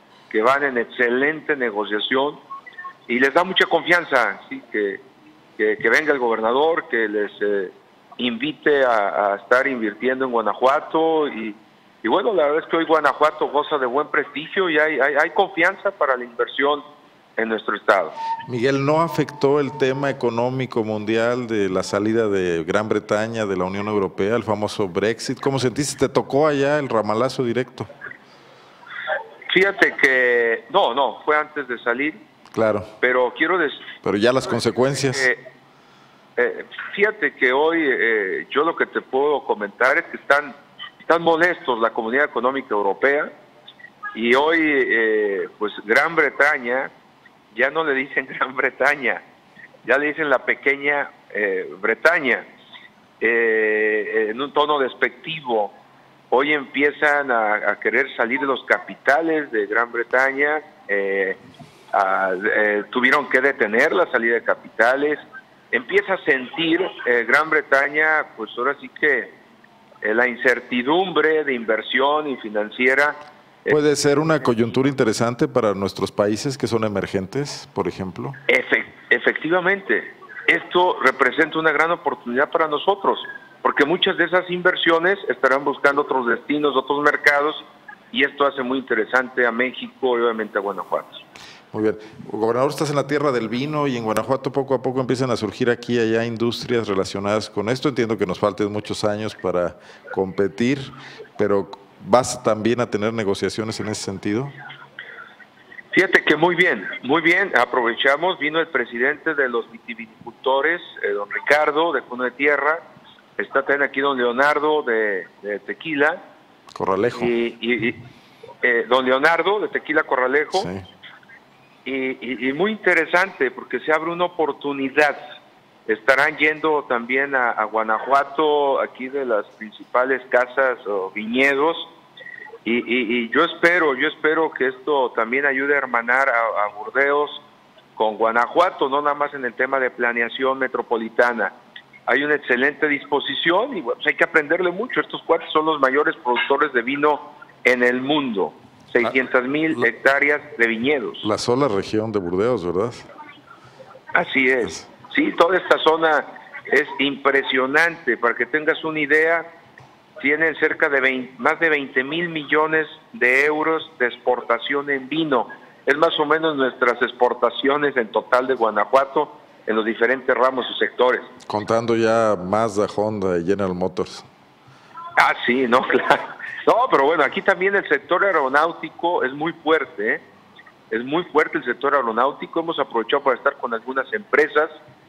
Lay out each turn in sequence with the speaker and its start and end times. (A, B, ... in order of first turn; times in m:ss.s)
0:00.3-0:02.4 A
0:03.1-0:05.0 A
0:05.6-0:16.8 A
0:17.4-0:18.2 A
0:18.4-0:27.9 B
0:29.5-0:32.2 A
0:32.5-0:32.9 B
0:33.0-0:33.9 A
0:34.0-0:35.3 B
0:35.1-0:35.4 A
0:36.4-0:43.3 A
0:44.1-0:46.9 A
0:47.5-0:49.2 A
0:49.8-0:52.4 A
0:53.2-0:55.7 A
0:56.3-1:01.4 A
1:01.9-1:09.3 A
1:10.0-1:13.8 A
1:13.7-1:18.4 B
1:18.5-1:31.2 A
1:31.7-1:44.5 B
1:45.9-1:52.8 A
1:53.4-1:56.2 A
1:56.7-1:57.3 B
1:57.2-1:58.0 A
1:58.6-2:00.7 A
2:00.5-2:00.8 B
2:01.8-2:05.2 A
2:05.9-2:11.9 A
2:12.6-2:17.4 A
2:18.0-2:21.5 A
2:22.1-2:31.3 A
2:31.2-2:33.0 B
2:34.1-2:39.5 A
2:40.2-2:51.3 A
2:51.5-2:54.3 B
2:55.2-3:00.2 A
3:00.9-3:04.8 A